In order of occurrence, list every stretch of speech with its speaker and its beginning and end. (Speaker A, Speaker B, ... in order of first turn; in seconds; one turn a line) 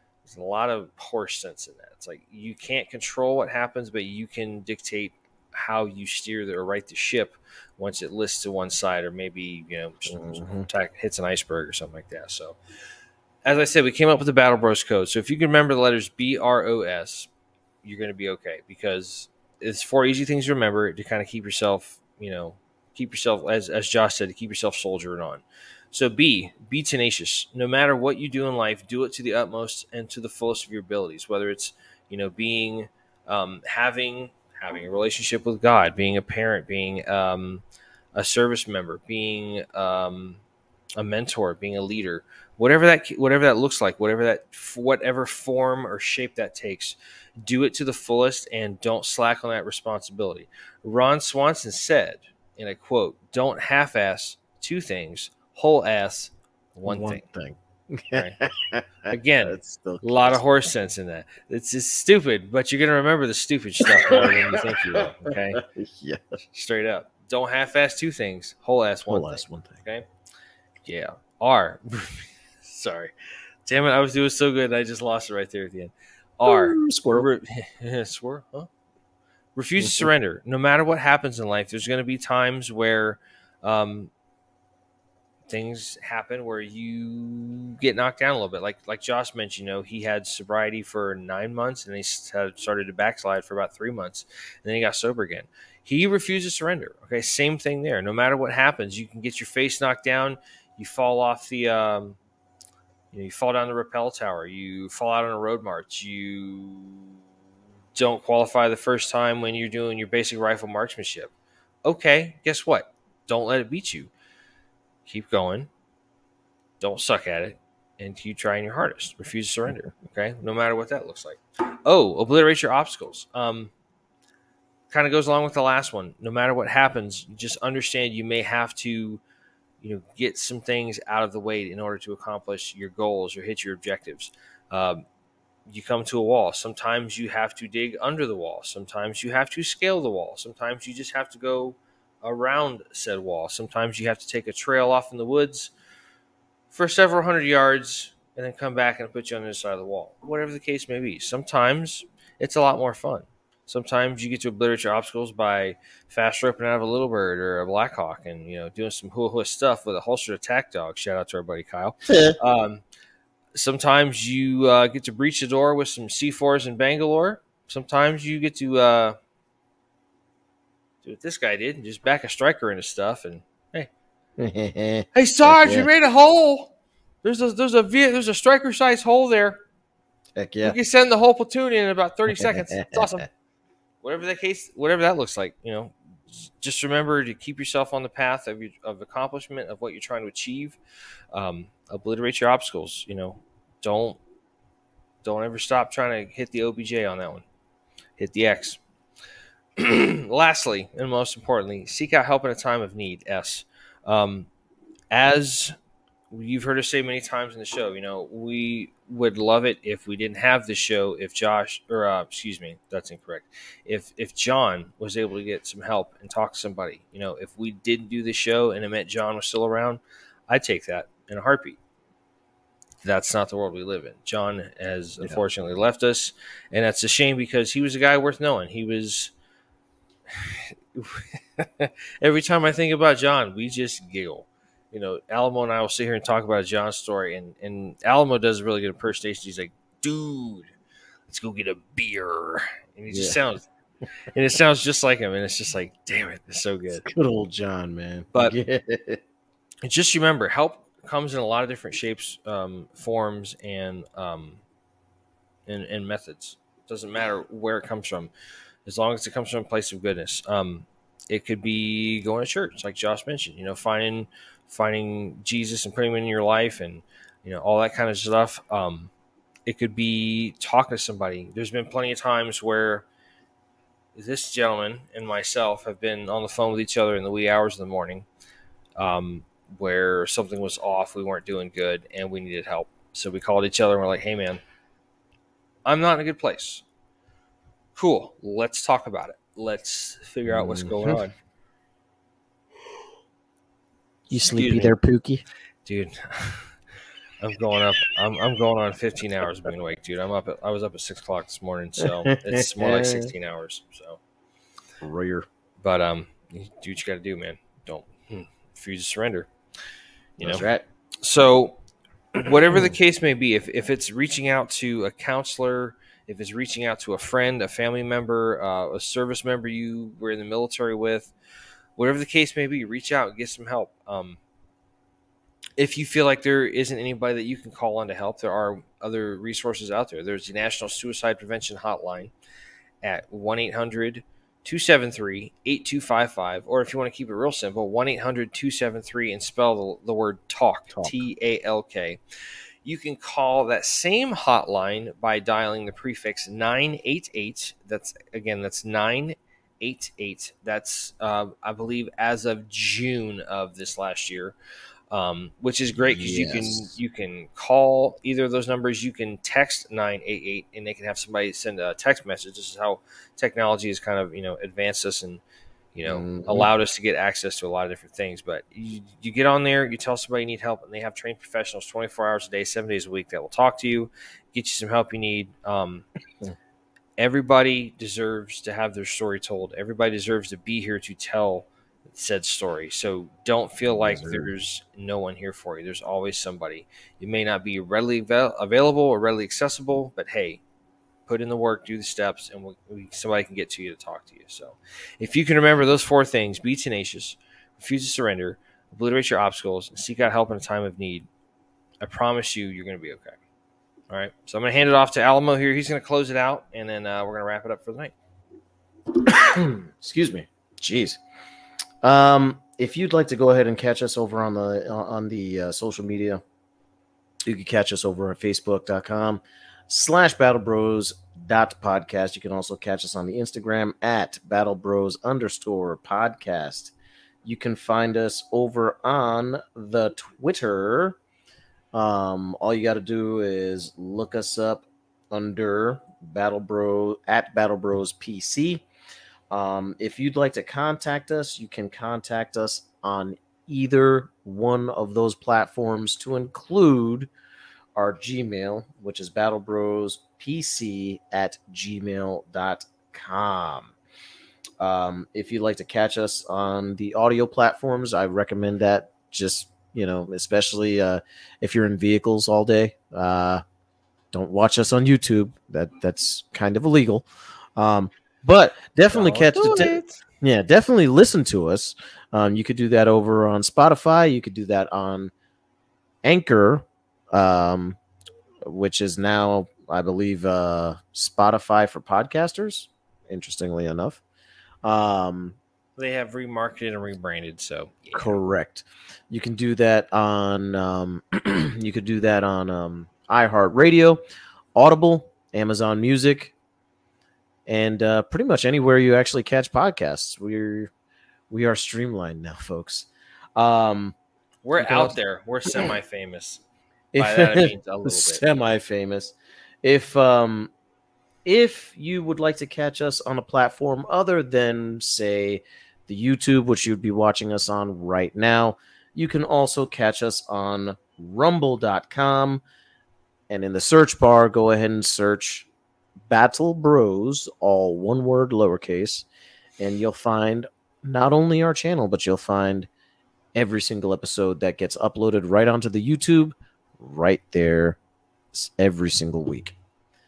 Speaker A: 0.2-12.6
Speaker B: 10.1-10.7
Speaker A: 13.4-17.3
Speaker A: 17.8-40.4
Speaker A: 41.0-57.2
Speaker B: 56.9-60.4
Speaker A: 58.1-58.4
Speaker A: 59.1-65.6
Speaker B: 63.9-66.2
Speaker A: 66.5-70.1
Speaker B: 69.1-69.8
Speaker A: 70.8-73.1
Speaker A: 73.7-78.7
Speaker B: 76.4-77.3
Speaker A: 79.5-84.1
Speaker B: 79.8-80.1
Speaker A: 85.5-102.2
Speaker A: 103.1-107.2
Speaker A: 107.9-111.3
Speaker A: 111.8-114.1
Speaker A: 115.1-115.7
Speaker A: 116.8-123.7
Speaker A: 124.9-129.2
Speaker A: 129.8-135.0
Speaker A: 135.7-145.7
Speaker A: 146.7-162.8
Speaker B: 162.1-162.4
Speaker A: 163.6-169.2
Speaker A: 171.0-173.9
Speaker B: 174.4-175.9
Speaker A: 175.1-176.7
Speaker A: 177.2-179.6
Speaker B: 180.4-180.8
Speaker A: 180.6-183.3
Speaker B: 182.3-183.2
Speaker A: 184.0-190.8
Speaker A: 191.3-194.2
Speaker A: 195.2-197.4
Speaker A: 198.2-198.8
Speaker A: 199.8-204.5
Speaker A: 205.1-205.8
Speaker A: 206.3-221.8
Speaker A: 223.0-229.3
Speaker A: 230.3-240.7
Speaker A: 241.3-243.7
Speaker B: 243.1-243.4
Speaker A: 244.3-247.1
Speaker B: 247.0-249.2
Speaker A: 249.8-254.6
Speaker A: 255.7-258.3
Speaker A: 258.9-269.1
Speaker A: 269.7-273.1
Speaker A: 274.1-278.3
Speaker A: 279.0-284.6
Speaker A: 285.9-286.8
Speaker A: 288.0-291.3
Speaker B: 290.5-291.2
Speaker B: 294.3-295.4
Speaker A: 294.5-294.9
Speaker A: 295.9-296.8
Speaker A: 297.4-304.2
Speaker B: 302.1-303.3
Speaker B: 305.0-305.5
Speaker A: 305.8-309.5
Speaker A: 310.4-310.6
Speaker B: 310.4-310.9
Speaker A: 311.2-311.8
Speaker A: 312.4-321.3
Speaker B: 312.7-313.0
Speaker A: 322.0-324.4
Speaker A: 325.8-332.3
Speaker A: 333.0-342.2
Speaker B: 340.9-341.2
Speaker A: 342.8-354.6
Speaker A: 355.1-365.4
Speaker B: 356.0-357.0
Speaker A: 365.9-376.1
Speaker B: 366.1-366.7
Speaker A: 377.2-390.6
Speaker B: 383.9-384.5
Speaker A: 391.3-401.3
Speaker A: 402.0-403.4
Speaker A: 404.1-408.1
Speaker B: 409.1-411.2
Speaker B: 412.0-416.4
Speaker B: 417.4-431.2
Speaker B: 431.9-438.9
Speaker B: 439.5-447.3
Speaker B: 447.9-453.9
Speaker B: 454.8-463.6
Speaker B: 464.3-475.3
Speaker A: 469.1-470.2
Speaker B: 476.2-478.0
Speaker B: 478.6-484.2
Speaker B: 484.8-485.6
Speaker A: 486.0-488.4
Speaker B: 488.1-494.2
Speaker B: 494.8-496.5
Speaker B: 497.7-500.9
Speaker B: 501.5-504.2
Speaker A: 504.6-506.6
Speaker B: 504.8-505.9
Speaker B: 507.1-510.7
Speaker A: 507.2-508.4
Speaker B: 511.4-522.6
Speaker B: 523.5-525.7
Speaker B: 526.3-529.3
Speaker B: 529.8-532.9
Speaker B: 533.5-538.0
Speaker B: 538.5-539.8